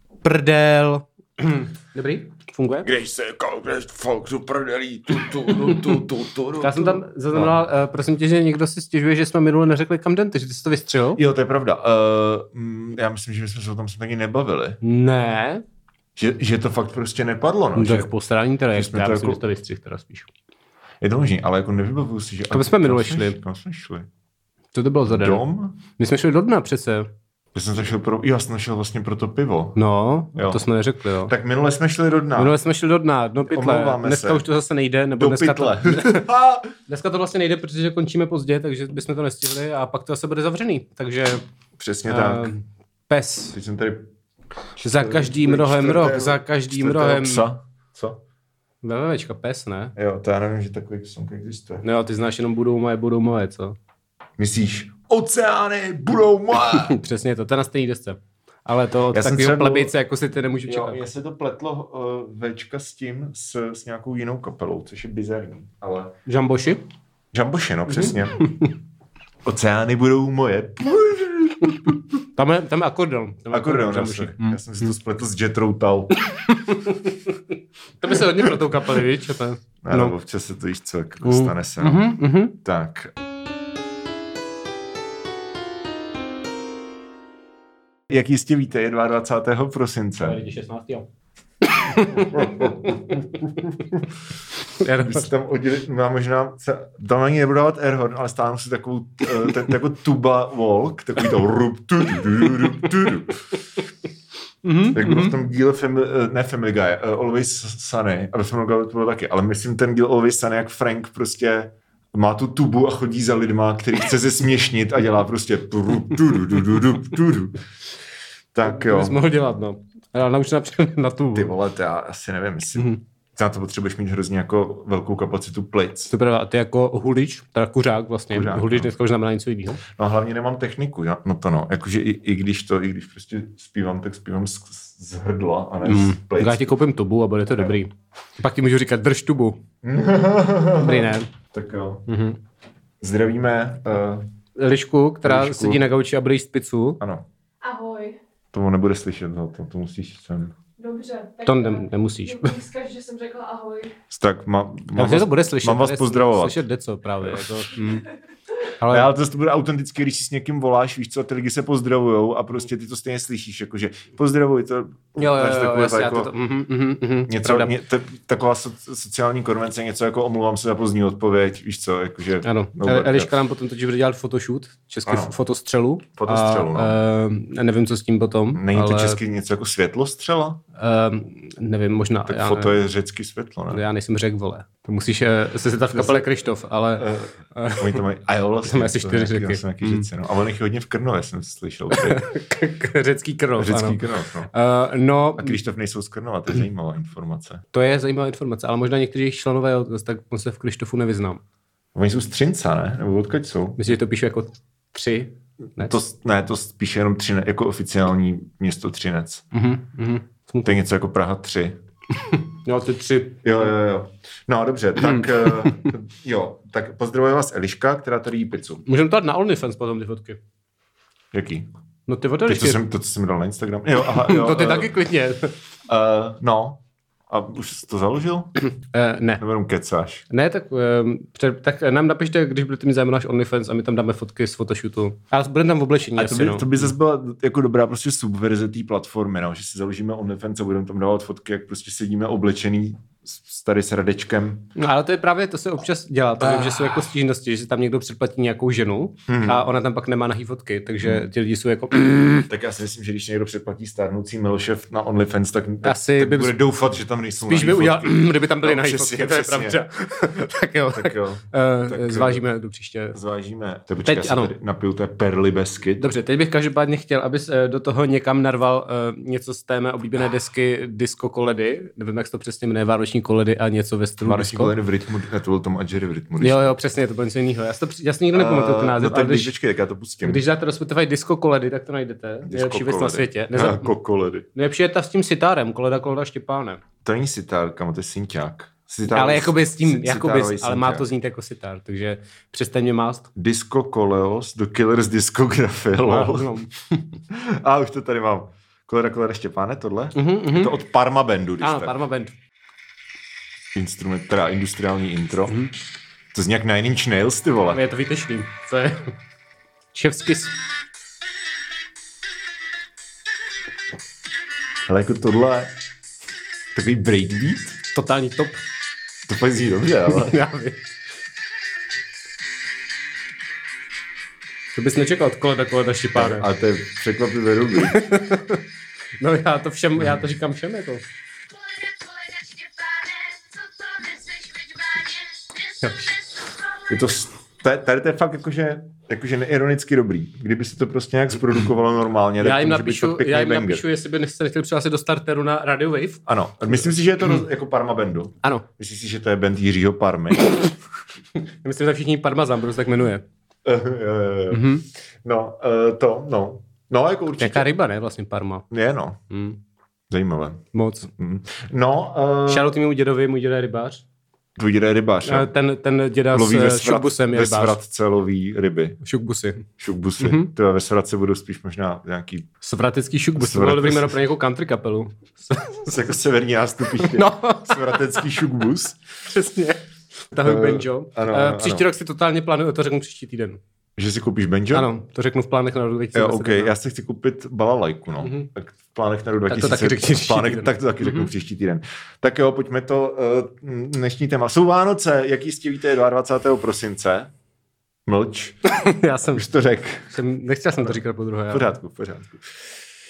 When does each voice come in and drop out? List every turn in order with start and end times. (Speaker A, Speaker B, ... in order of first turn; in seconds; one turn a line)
Speaker A: 0.2-2.9
Speaker B: 2.8-7.6
Speaker A: 5.5-5.8
Speaker A: 6.6-11.2
Speaker B: 11.1-14.8
Speaker A: 14.8-15.6
Speaker B: 16.1-18.1
Speaker A: 17.7-20.3
Speaker B: 18.7-19.4
Speaker B: 21.0-24.1
Speaker A: 22.5-23.4
Speaker A: 24.7-27.1
Speaker B: 25.1-25.8
Speaker B: 27.5-29.8
Speaker A: 29.8-31.3
Speaker B: 30.3-30.6
Speaker B: 31.2-32.6
Speaker A: 32.4-36.3
Speaker B: 33.5-34.4
Speaker B: 35.1-36.7
Speaker A: 36.9-41.4
Speaker B: 41.8-42.5
Speaker A: 42.1-43.5
Speaker B: 43.5-44.1
Speaker B: 44.8-48.2
Speaker A: 44.8-47.5
Speaker A: 48.8-49.9
Speaker B: 50.0-51.8
Speaker A: 51.8-53.8
Speaker B: 54.4-56.9
Speaker A: 56.6-61.0
Speaker B: 59.1-59.9
Speaker B: 60.6-66.1
Speaker A: 66.2-66.8
Speaker B: 67.3-68.5
Speaker A: 67.9-68.7
Speaker B: 69.4-72.0
Speaker A: 72.3-74.6
Speaker B: 73.5-76.2
Speaker A: 76.3-77.3
Speaker A: 78.0-80.1
Speaker B: 78.1-78.7
Speaker B: 79.8-83.1
Speaker A: 81.2-82.5
Speaker B: 88.1-90.4
Speaker A: 90.2-91.1
Speaker A: 91.7-93.7
Speaker B: 92.1-93.9
Speaker A: 94.8-95.3
Speaker B: 94.9-103.5
Speaker A: 104.6-105.3
Speaker B: 104.9-117.6
Speaker B: 118.5-119.2
Speaker A: 118.6-121.5
Speaker B: 121.3-126.1
Speaker A: 126.1-129.8
Speaker B: 128.3-128.9
Speaker B: 129.8-136.7
Speaker A: 135.8-139.6
Speaker B: 139.8-142.1
Speaker A: 140.8-141.3
Speaker A: 142.1-142.4
Speaker B: 143.0-144.3
Speaker A: 144.6-147.0
Speaker B: 145.2-145.8
Speaker B: 147.0-147.2
Speaker C: 147.6-148.2
Speaker B: 148.5-150.5
Speaker C: 150.8-153.9
Speaker A: 151.4-152.6
Speaker B: 154.1-156.6
Speaker A: 154.9-158.1
Speaker B: 157.2-157.8
Speaker A: 158.8-159.1
Speaker B: 158.9-166.3
Speaker A: 165.2-167.8
Speaker B: 167.3-173.3
Speaker A: 172.4-179.2
Speaker B: 175.1-175.3
Speaker B: 176.2-177.0
Speaker B: 178.5-180.6
Speaker A: 180.8-182.8
Speaker B: 182.3-183.8
Speaker A: 183.7-188.0
Speaker B: 185.9-186.3
Speaker B: 187.0-192.2
Speaker A: 188.6-190.1
Speaker A: 191.9-195.6
Speaker B: 193.6-194.5
Speaker B: 195.4-197.6
Speaker A: 197.7-201.4
Speaker B: 201.9-204.0
Speaker A: 203.8-206.0
Speaker B: 205.8-209.4
Speaker A: 209.5-210.8
Speaker B: 210.6-211.8
Speaker A: 212.3-213.7
Speaker B: 213.4-218.8
Speaker A: 215.0-215.8
Speaker A: 218.8-220.4
Speaker B: 221.3-221.7
Speaker A: 222.1-222.8
Speaker B: 222.4-225.0
Speaker A: 224.1-225.5
Speaker B: 225.9-228.6
Speaker A: 228.8-229.4
Speaker B: 229.4-230.2
Speaker A: 230.3-236.9
Speaker B: 236.2-244.7
Speaker A: 244.8-252.4
Speaker B: 246.4-247.1
Speaker B: 249.3-249.6
Speaker B: 252.5-259.8
Speaker A: 255.8-256.6
Speaker A: 257.5-263.2
Speaker B: 260.9-262.4
Speaker B: 263.1-266.0
Speaker A: 264.0-264.5
Speaker A: 266.0-274.7
Speaker B: 274.2-276.7
Speaker A: 276.4-279.5
Speaker B: 278.3-280.4
Speaker A: 280.2-283.9
Speaker B: 282.4-284.5
Speaker A: 284.5-286.8
Speaker B: 287.0-291.1
Speaker A: 289.1-293.3
Speaker B: 293.3-296.6
Speaker A: 296.0-296.7
Speaker B: 297.3-301.9
Speaker A: 300.1-300.7
Speaker A: 301.6-302.3
Speaker B: 303.7-305.7
Speaker B: 306.3-307.8
Speaker A: 307.7-309.1
Speaker A: 309.9-310.6
Speaker B: 314.9-315.7
Speaker B: 316.7-317.8
Speaker A: 317.9-318.6
Speaker B: 319.3-320.4
Speaker A: 320.1-320.9
Speaker A: 324.7-326.5
Speaker B: 326.1-328.1
Speaker A: 327.8-328.6
Speaker A: 329.2-331.0
Speaker A: 335.8-336.1
Speaker B: 336.9-343.8
Speaker A: 342.4-346.2
Speaker B: 346.2-350.7
Speaker A: 351.4-353.2
Speaker B: 353.6-354.7
Speaker A: 354.5-354.8
Speaker B: 355.2-357.7
Speaker A: 357.4-358.6
Speaker B: 358.7-359.2
Speaker A: 359.3-359.6
Speaker B: 360.1-360.6
Speaker A: 360.7-361.1
Speaker B: 361.2-362.7
Speaker A: 362.5-364.0
Speaker B: 364.6-365.5
Speaker A: 365.2-367.8
Speaker B: 366.3-369.0
Speaker A: 369.0-369.7
Speaker B: 369.8-372.5
Speaker A: 370.2-370.5
Speaker A: 372.6-376.0
Speaker B: 373.4-374.2
Speaker B: 375.9-379.0
Speaker A: 377.0-378.2
Speaker A: 379.2-383.6
Speaker B: 380.4-381.9
Speaker B: 384.0-384.9
Speaker A: 384.7-386.7
Speaker B: 386.1-397.3
Speaker A: 388.2-388.5
Speaker A: 389.5-391.3
Speaker B: 398.1-398.6
Speaker A: 398.7-399.4
Speaker B: 399.3-400.2
Speaker A: 400.1-401.7
Speaker B: 401.5-402.6